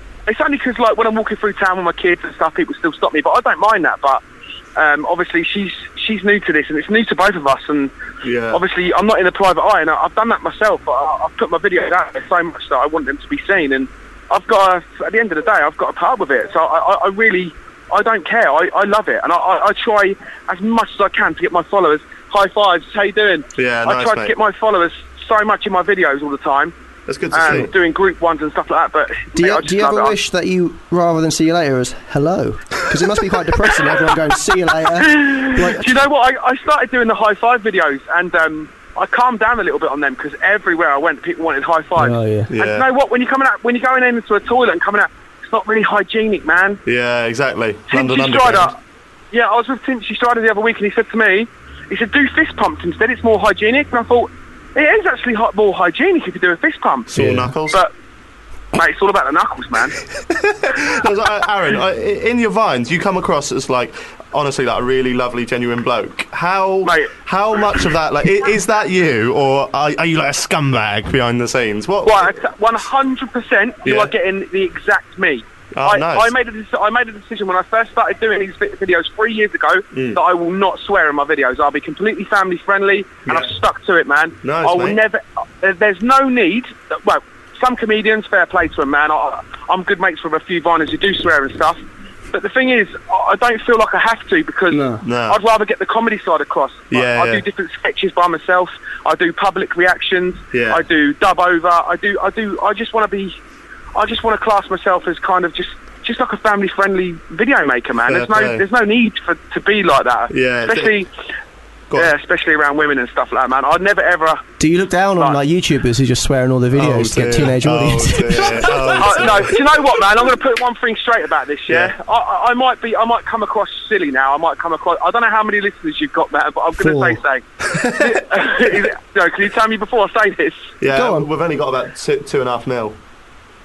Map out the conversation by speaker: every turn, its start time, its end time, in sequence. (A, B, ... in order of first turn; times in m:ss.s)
0:00.3-0:04.2 A
0:04.8-0:07.9 A
0:08.2-0:08.6 B
0:08.5-0:26.7 A
0:23.6-0:24.3 B
0:27.1-0:27.7 B
0:27.3-0:30.2 A
0:29.4-0:35.9 C
0:35.0-0:46.8 A
0:42.0-0:42.5 C
0:42.5-0:42.8 B
0:46.8-0:48.7 B
0:47.9-0:48.8 A
0:49.3-0:57.9 A
0:57.1-0:57.8 B
0:58.7-1:00.0 A
1:00.3-1:12.3 B
1:06.8-1:07.1 A
1:12.0-1:31.8 A
1:13.8-1:14.1 B
1:15.7-1:16.3 B
1:19.9-1:20.2 B
1:23.2-1:23.5 B
1:24.4-1:25.0 B
1:32.3-1:43.4 A
1:35.0-1:35.4 B
1:36.9-1:37.4 B
1:40.5-1:40.8 B
1:43.9-1:51.1 A
1:48.0-1:48.6 B
1:50.3-1:51.0 B
1:51.9-1:54.4 A
1:54.6-1:59.2 C
1:56.7-1:59.6 B
1:59.0-2:10.7 A
2:01.7-2:01.9 B
2:06.8-2:07.2 C
2:07.7-2:08.6 B
2:10.8-2:13.0 B
2:10.9-2:11.3 C